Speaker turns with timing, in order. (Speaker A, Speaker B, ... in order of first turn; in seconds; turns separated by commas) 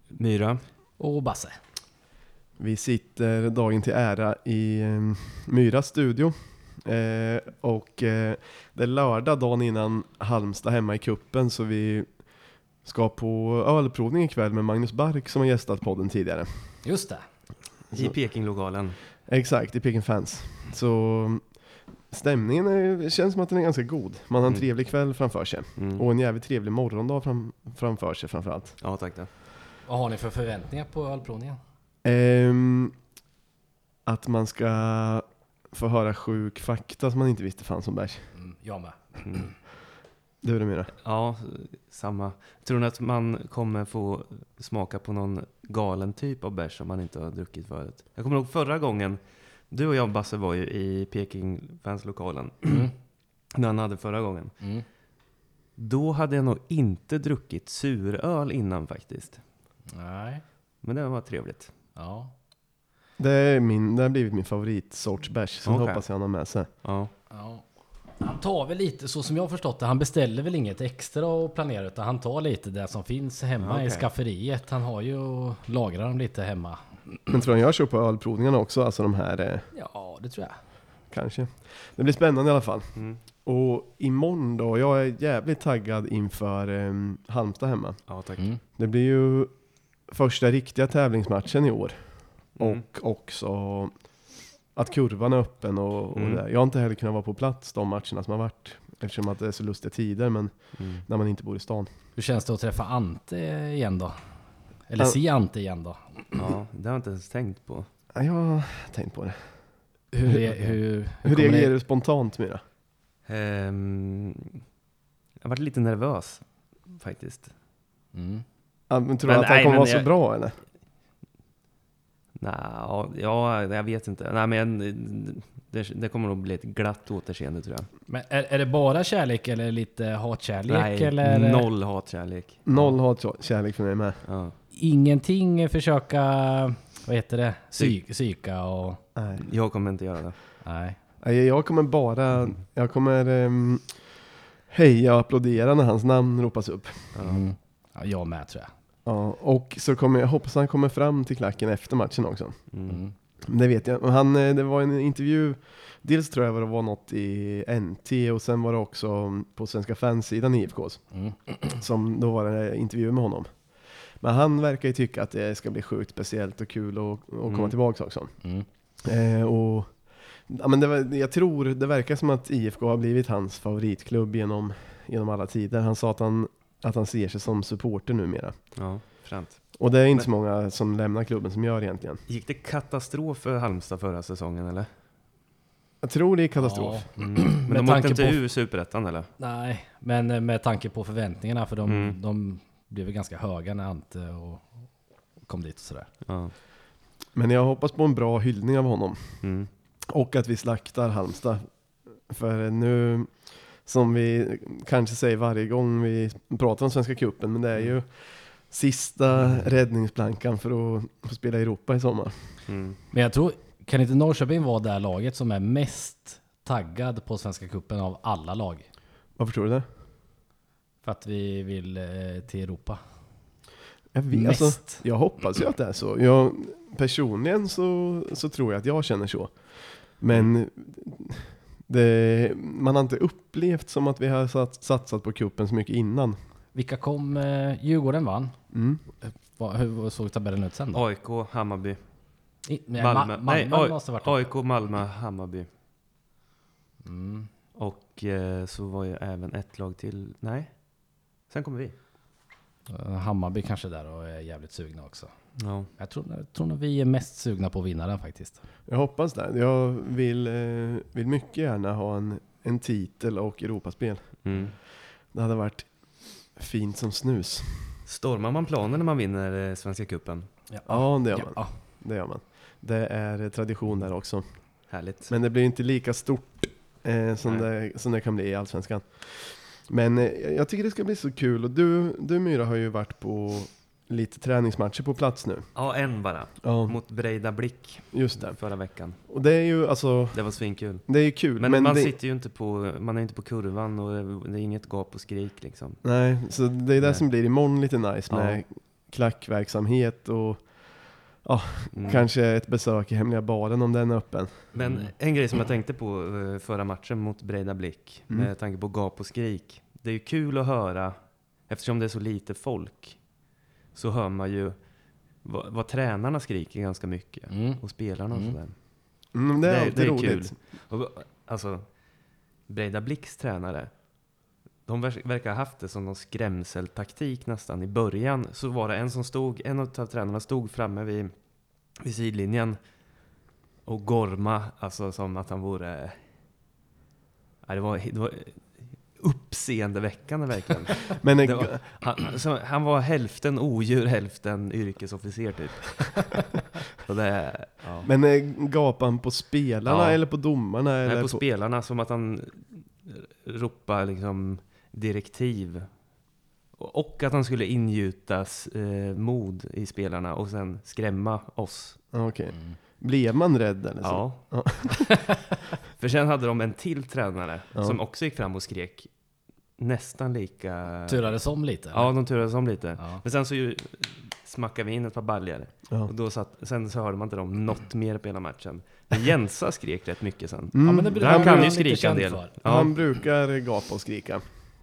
Speaker A: 0.1-0.6, Speaker B: 1.0-1.6, Speaker C: 2.6-12.3, Speaker C: 12.8-16.8, Speaker B: 16.8-17.2, Speaker C: 17.9-18.2, Speaker A: 17.9-19.0, Speaker C: 19.3-28.8, Speaker A: 25.8-26.1, Speaker A: 28.8-29.3, Speaker B: 29.9-31.6, Speaker C: 32.0-33.0, Speaker C: 34.0-38.3, Speaker B: 38.4-39.6, Speaker C: 40.4-40.9, Speaker A: 41.0-52.9, Speaker B: 52.6-52.9, Speaker A: 53.5-54.6, Speaker B: 54.6-54.9, Speaker A: 55.8-59.4, Speaker B: 59.9-60.4, Speaker A: 60.8-61.7, Speaker B: 62.0-62.3, Speaker C: 63.2-66.7, Speaker A: 65.7-66.0, Speaker A: 66.8-67.1, Speaker B: 67.3-67.7, Speaker B: 68.2-77.3, Speaker A: 73.6-74.1, Speaker C: 77.3-79.7, Speaker B: 79.7-80.6, Speaker C: 81.1-101.9, Speaker A: 88.1-88.4, Speaker A: 92.6-92.8, Speaker A: 96.2-96.4, Speaker A: 100.8-101.1, Speaker B: 102.2-104.3, Speaker B: 104.8-106.4, Speaker A: 106.3-107.9, Speaker C: 108.1-112.6, Speaker B: 110.1-111.7, Speaker A: 113.3-114.6, Speaker A: 115.4-117.5, Speaker B: 118.1-118.5, Speaker C: 118.9-120.6, Speaker A: 119.2-120.1, Speaker A: 122.4-127.9, Speaker B: 128.1-131.7, Speaker A: 130.7-132.9, Speaker C: 132.7-134.2, Speaker A: 134.2-134.6, Speaker B: 134.8-139.0, Speaker C: 139.2-139.4, Speaker A: 139.4-140.4, Speaker B: 140.6-141.0, Speaker C: 141.2-147.2, Speaker A: 147.1-147.5, Speaker B: 147.2-148.7, Speaker C: 149.1-152.9, Speaker A: 152.7-153.0, Speaker B: 152.9-153.2, Speaker C: 153.5-179.1, Speaker B: 161.1-161.8, Speaker A: 167.5-167.8, Speaker A: 178.8-180.3, Speaker C: 179.8-182.2, Speaker A: 182.3-184.9, Speaker C: 186.0-187.1, Speaker B: 186.6-188.4, Speaker A: 187.2-189.3, Speaker B: 189.4-196.1, Speaker A: 191.9-192.2, Speaker A: 196.2-196.5, Speaker C: 197.3-212.7, Speaker A: 199.4-199.7, Speaker A: 212.7-213.0, Speaker B: 213.1-218.9, Speaker C: 219.4-219.8, Speaker B: 221.0-223.0, Speaker C: 224.1-236.4, Speaker B: 224.3-225.1, Speaker B: 236.7-241.0, Speaker C: 238.7-239.1, Speaker A: 240.9-245.7, Speaker B: 242.7-244.5, Speaker B: 247.0-247.5, Speaker A: 247.8-252.0, Speaker B: 252.9-258.6, Speaker A: 255.6-255.9, Speaker C: 258.9-268.0, Speaker A: 264.4-264.7, Speaker A: 268.1-270.6, Speaker B: 270.7-271.8, Speaker C: 270.9-285.8, Speaker A: 274.9-275.3, Speaker A: 285.8-289.3, Speaker C: 286.6-287.0, Speaker C: 288.1-292.1, Speaker A: 290.3-296.1, Speaker C: 296.0-304.7, Speaker A: 297.0-297.3, Speaker A: 298.3-298.6, Speaker A: 301.9-302.3, Speaker A: 304.7-324.1, Speaker B: 304.9-305.1, Speaker B: 317.5-318.6, Speaker C: 319.3-320.5, Speaker A: 324.9-331.4, Speaker A: 331.9-333.0, Speaker A: 333.9-336.3, Speaker A: 337.6-348.1, Speaker C: 341.2-341.8, Speaker C: 348.0-351.4, Speaker A: 349.9-350.4, Speaker A: 351.1-356.1, Speaker A: 356.7-362.1, Speaker C: 362.1-365.2, Speaker B: 362.5-362.8, Speaker A: 364.0-365.2, Speaker A: 366.0-369.1, Speaker A: 369.8-383.0, Speaker B: 371.1-372.4, Speaker B: 373.0-373.2, Speaker C: 380.7-381.8, Speaker B: 380.8-382.5, Speaker C: 382.6-384.4